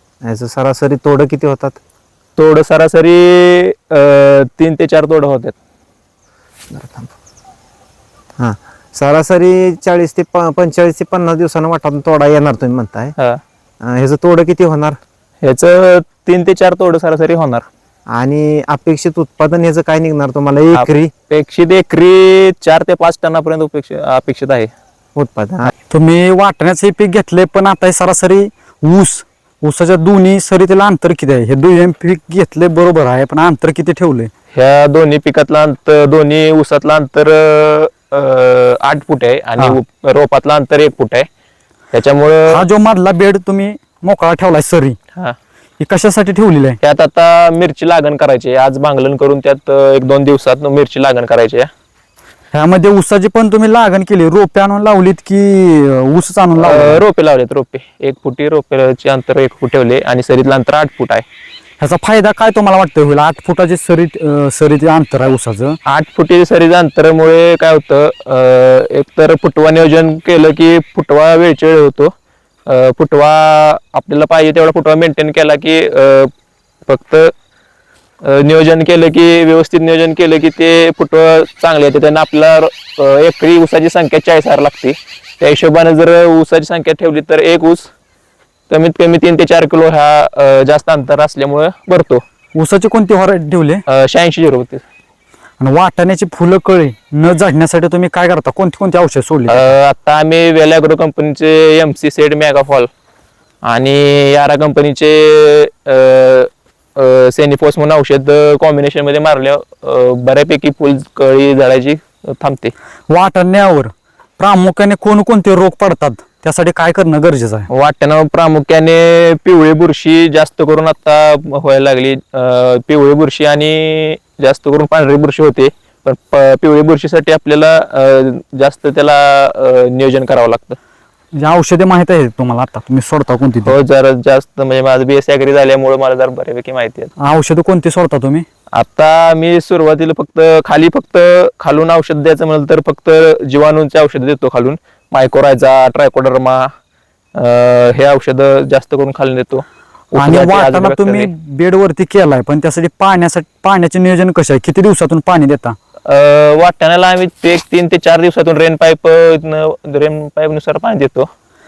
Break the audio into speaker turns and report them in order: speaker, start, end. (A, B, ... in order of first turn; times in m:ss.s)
0:00.2-0:01.8 A
0:02.4-0:05.5 B
0:06.7-0:07.1 A
0:08.4-0:13.2 A
0:13.8-0:15.0 A
0:15.4-0:17.7 B
0:18.1-0:21.1 A
0:20.7-0:24.7 B
0:25.2-0:25.7 A
0:25.9-0:34.3 C
0:34.5-0:41.3 B
0:41.9-0:42.6 B
0:42.5-0:45.0 C
0:45.8-0:46.8 C
0:46.8-0:51.7 B
0:52.5-0:57.0 C
0:56.6-1:01.2 B
1:01.8-1:05.8 C
1:05.9-1:12.1 B
1:12.7-1:16.3 B
1:16.9-1:17.3 B
1:18.2-1:27.9 B
1:28.7-1:32.2 B
1:32.6-1:33.8 C
1:33.9-1:34.8 B
1:35.6-1:39.8 C
1:39.5-1:42.9 B
1:43.7-1:52.7 B
1:53.1-1:57.7 C
1:57.7-2:10.8 B
2:11.4-2:13.8 C
2:13.6-2:17.1 B
2:17.2-2:18.4 C
2:18.8-2:26.7 B
2:27.4-2:31.3 B
2:30.2-2:35.8 C
2:36.1-2:41.3 B